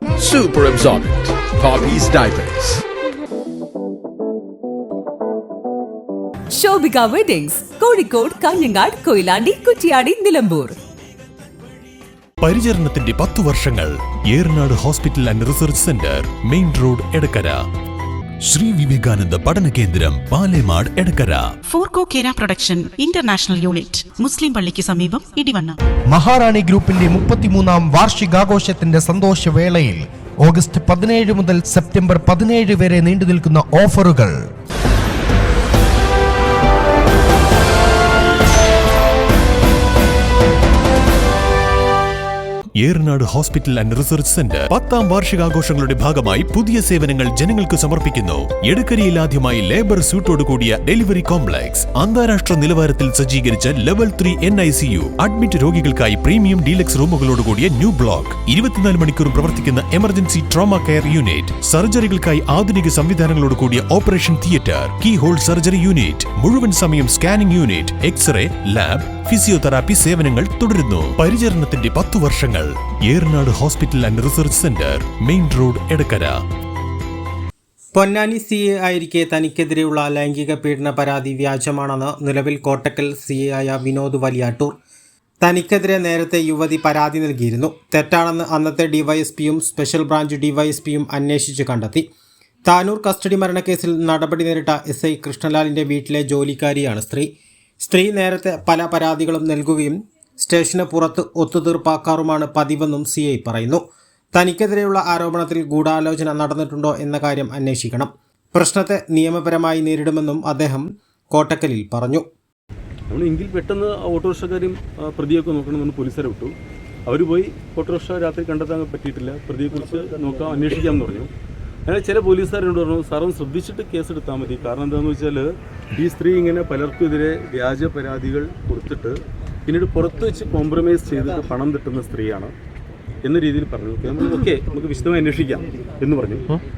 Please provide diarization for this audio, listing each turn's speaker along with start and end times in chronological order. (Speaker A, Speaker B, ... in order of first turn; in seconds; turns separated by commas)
Speaker A: 0.2-2.7, Speaker B: 6.5-10.8, Speaker C: 12.4-17.6, Speaker C: 18.4-21.5, Speaker D: 21.7-25.8, Speaker E: 26.1-34.5, Speaker C: 42.8-76.4, Speaker F: 77.9-84.8, Speaker F: 85.4-92.1, Speaker F: 92.7-97.3, Speaker F: 97.8-103.8, Speaker F: 104.3-112.2, Speaker G: 113.1-116.5, Speaker G: 117.1-121.3, Speaker G: 121.9-132.5, Speaker G: 133.2-136.5